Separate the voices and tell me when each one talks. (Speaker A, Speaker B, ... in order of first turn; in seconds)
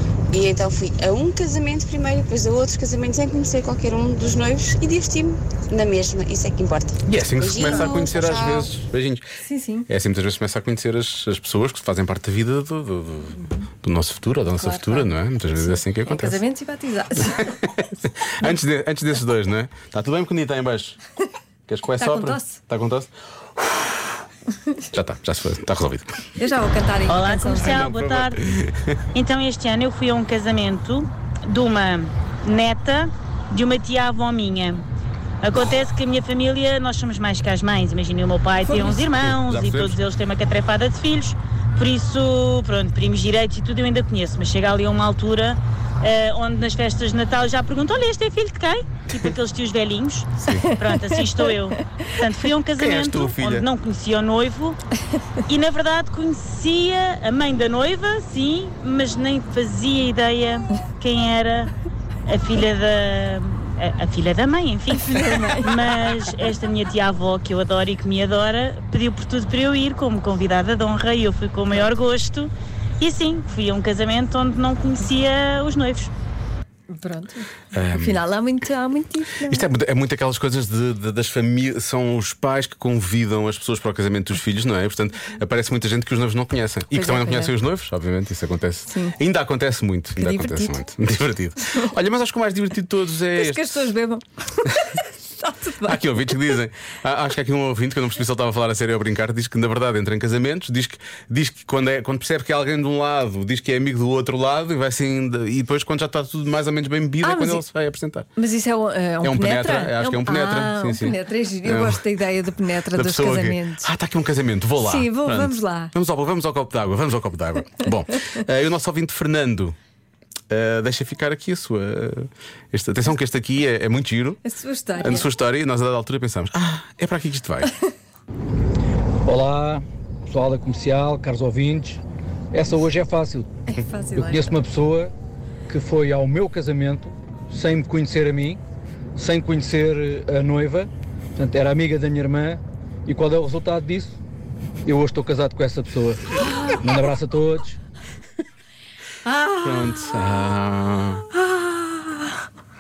Speaker A: 0.3-8.7
Speaker B: 7.1-9.2, 9.9-16.4, 17.2-21.0, 21.7-24.1, 24.9-26.2, 27.6-29.0, 38.7-40.0, 50.4-50.7, 52.8-53.7, 77.7-78.3, 79.5-93.9, 95.8-108.3, 109.2-112.1, 112.9-119.8, 120.5-124.4, 125.0-127.7, 149.6-151.3
Speaker C: 9.4-9.9, 14.5-17.5, 22.0-22.6, 26.4-27.9, 50.6-51.0, 65.0-65.7, 76.9-79.7, 86.9-87.5, 88.9-89.2, 90.2-90.8, 93.4-96.4, 107.2-107.6, 108.4-113.9, 114.8-115.9, 124.4-125.3, 133.7-134.6, 149.2-150.1, 151.4-152.3
Speaker D: 27.1-28.4, 29.1-34.8, 35.4-54.8, 55.5-61.7, 62.3-76.1
Speaker E: 129.2-132.0, 132.5-133.5, 134.2-135.1, 135.7-138.6, 139.2-144.1, 144.8-146.2, 146.8-147.8